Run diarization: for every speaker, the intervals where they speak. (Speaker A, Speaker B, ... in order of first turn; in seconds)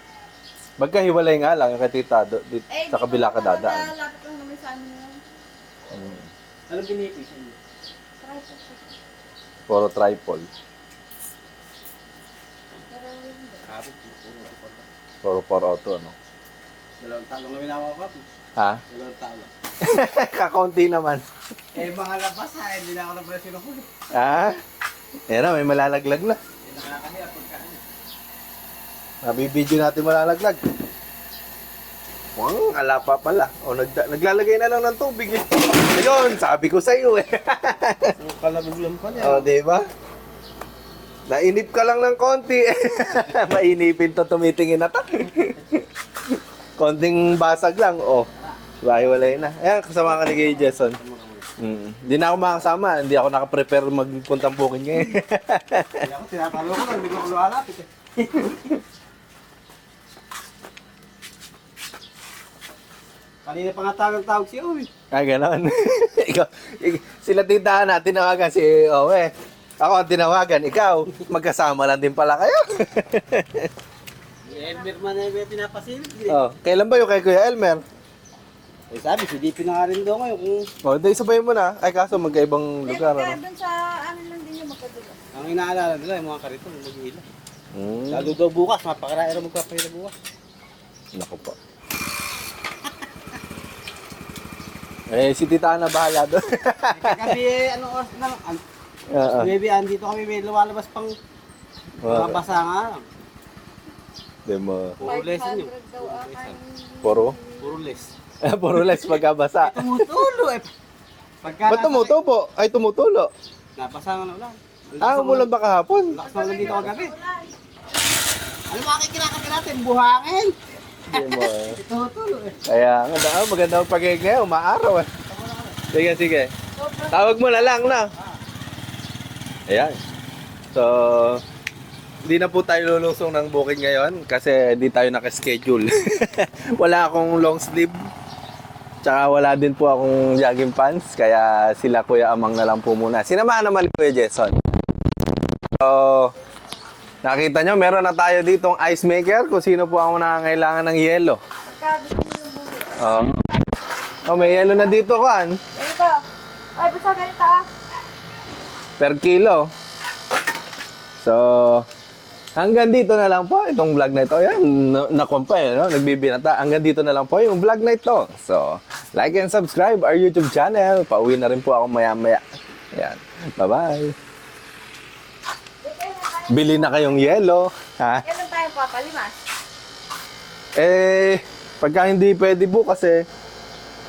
Speaker A: 0.8-3.9, 5.9-6.2, 9.7-10.5, 15.2-16.1, 18.6-18.8, 19.8-21.2, 24.1-24.6, 25.3-26.4, 29.2-30.6, 32.4-38.1, 39.2-39.8, 41.3-45.8, 46.8-48.3, 48.8-51.0, 51.6-56.0, 65.1-73.7, 76.3-77.8, 80.8-83.4, 87.7-88.3, 91.2-91.6, 95.1-97.3, 99.1-99.5, 102.0-102.4, 104.5-105.0, 107.0-107.4, 108.4-110.2, 111.7-113.3, 115.0-116.8, 121.1-121.8, 122.7-125.1, 125.9-126.5, 127.1-128.1, 129.7-130.0, 130.7-131.4, 132.2-138.1, 139.0-144.6, 145.8-146.3, 147.2-151.4, 153.0-153.4, 154.2-155.6, 159.0-159.7, 161.2-161.9, 162.6-172.4, 172.9-174.1, 176.5-178.2, 180.8-183.2
Speaker B: 2.7-5.2, 8.2-8.9, 12.9-13.7, 74.5-74.8, 82.8-85.2, 105.0-107.8, 116.2-117.5, 126.7-127.9, 151.6-153.6, 154.2-155.1, 155.7-156.2, 156.8-157.7, 175.8-177.3, 178.2-179.3
Speaker C: 6.7-7.6, 13.7-14.9, 17.0-18.2, 18.9-19.5, 21.7-23.9, 26.6-27.8, 38.1-39.5, 48.4-48.7, 50.2-51.5, 56.0-58.6, 63.4-64.9, 74.4-76.4, 78.9-80.7, 85.3-87.2, 88.1-90.1, 96.9-98.6, 99.3-101.1, 102.0-103.1, 105.0-106.6, 107.6-108.1, 109.6-110.7, 111.4-112.2, 113.8-115.5, 116.1-117.1, 118.7-120.5, 121.1-122.6, 125.2-125.9, 128.0-128.4